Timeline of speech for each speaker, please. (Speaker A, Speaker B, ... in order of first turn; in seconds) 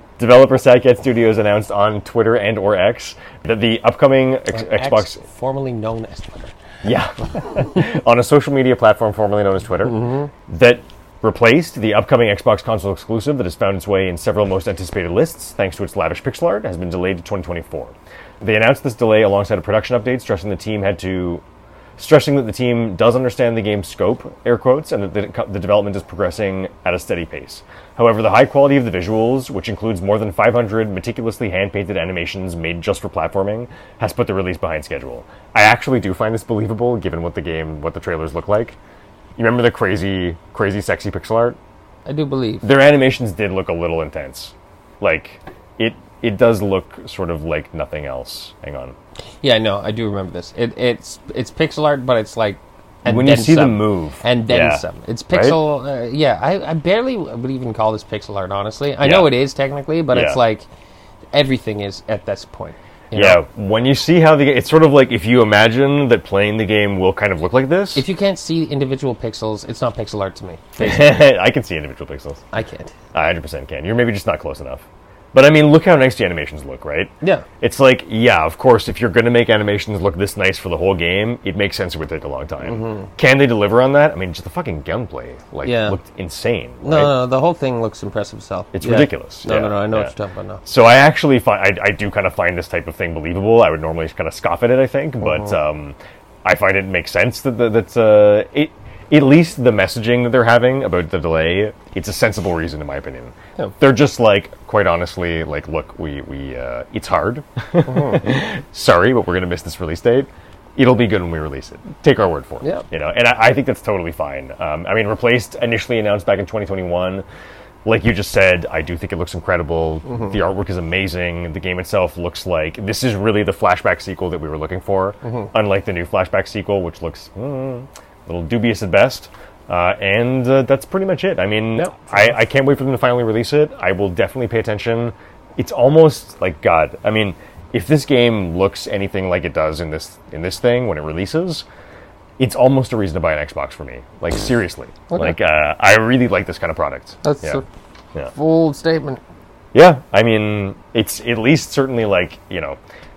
Speaker A: 0.2-5.2, 6.8-21.4, 22.0-38.8, 39.4-41.6, 42.6-49.0, 53.0-55.6, 59.0-59.3, 60.1-60.4, 63.1-68.0, 70.8-72.4, 73.1-87.1, 88.7-90.1, 90.6-117.2, 117.8-141.6, 142.4-147.6, 149.7-152.8
Speaker B: 4.5-6.5, 9.8-10.3, 42.0-42.7, 49.4-60.7, 61.3-63.4, 67.9-71.2, 72.5-72.9, 82.6-83.1, 85.6-86.0, 86.8-90.6, 107.8-108.2, 125.2-125.5, 131.8-132.3, 145.1-145.4, 147.2-147.7, 148.3-149.2